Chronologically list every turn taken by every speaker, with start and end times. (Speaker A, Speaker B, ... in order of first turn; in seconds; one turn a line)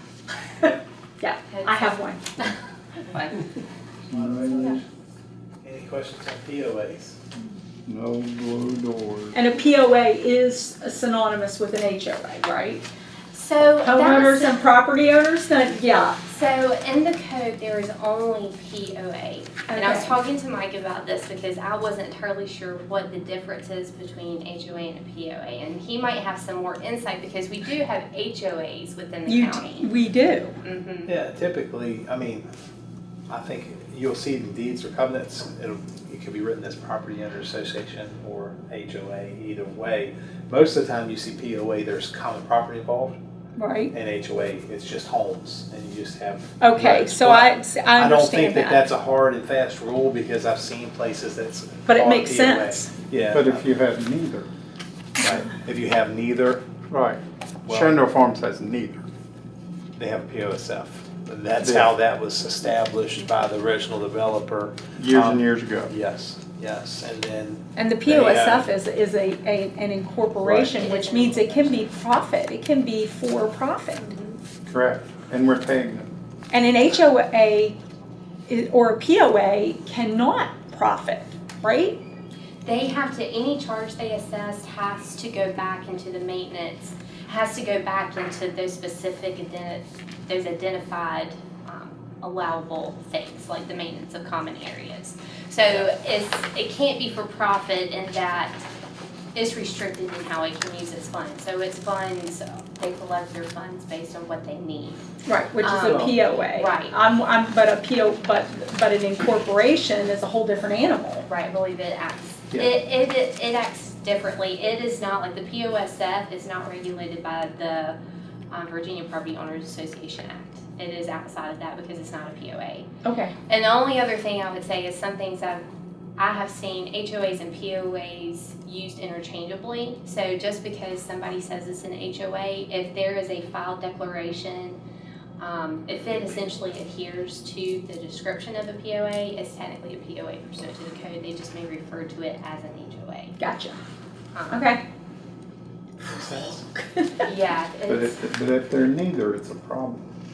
Speaker A: 1.2-2.2
Speaker B: 1.5-3.4
Speaker C: 4.1-4.8
Speaker D: 4.1-4.8
Speaker D: 5.6-7.2
Speaker C: 7.9-9.4
Speaker A: 9.3-12.9
Speaker B: 13.3-14.7
Speaker A: 13.8-16.2
Speaker B: 16.3-29.9
Speaker A: 19.7-20.1
Speaker A: 29.3-30.6
Speaker B: 30.6-31.1
Speaker D: 31.1-32.5
Speaker D: 33.3-43.2
Speaker A: 43.6-43.9
Speaker D: 43.9-53.7
Speaker A: 46.6-48.9
Speaker A: 51.9-52.9
Speaker C: 53.2-54.5
Speaker D: 55.2-56.6
Speaker C: 56.9-59.0
Speaker D: 57.7-58.0
Speaker D: 60.0-68.7
Speaker C: 61.6-61.9
Speaker C: 65.0-65.9
Speaker A: 67.8-74.1
Speaker C: 70.4-70.8
Speaker B: 70.8-71.9
Speaker B: 74.0-74.4
Speaker C: 74.7-76.1
Speaker A: 76.5-77.8
Speaker A: 78.5-82.0
Speaker B: 82.7-98.6
Speaker B: 99.3-105.0
Speaker A: 105.2-111.3
Speaker B: 105.6-107.0
Speaker D: 105.8-106.2
Speaker B: 111.3-118.0
Speaker B: 118.5-122.9
Speaker A: 123.0-123.3
Speaker B: 123.5-125.7
Speaker B: 126.2-134.8
Speaker B: 135.4-143.4
Speaker A: 143.4-143.8
Speaker B: 144.3-144.7
Speaker A: 144.5-144.8
Speaker A: 146.1-147.3
Speaker B: 147.2-148.2
Speaker C: 147.9-150.1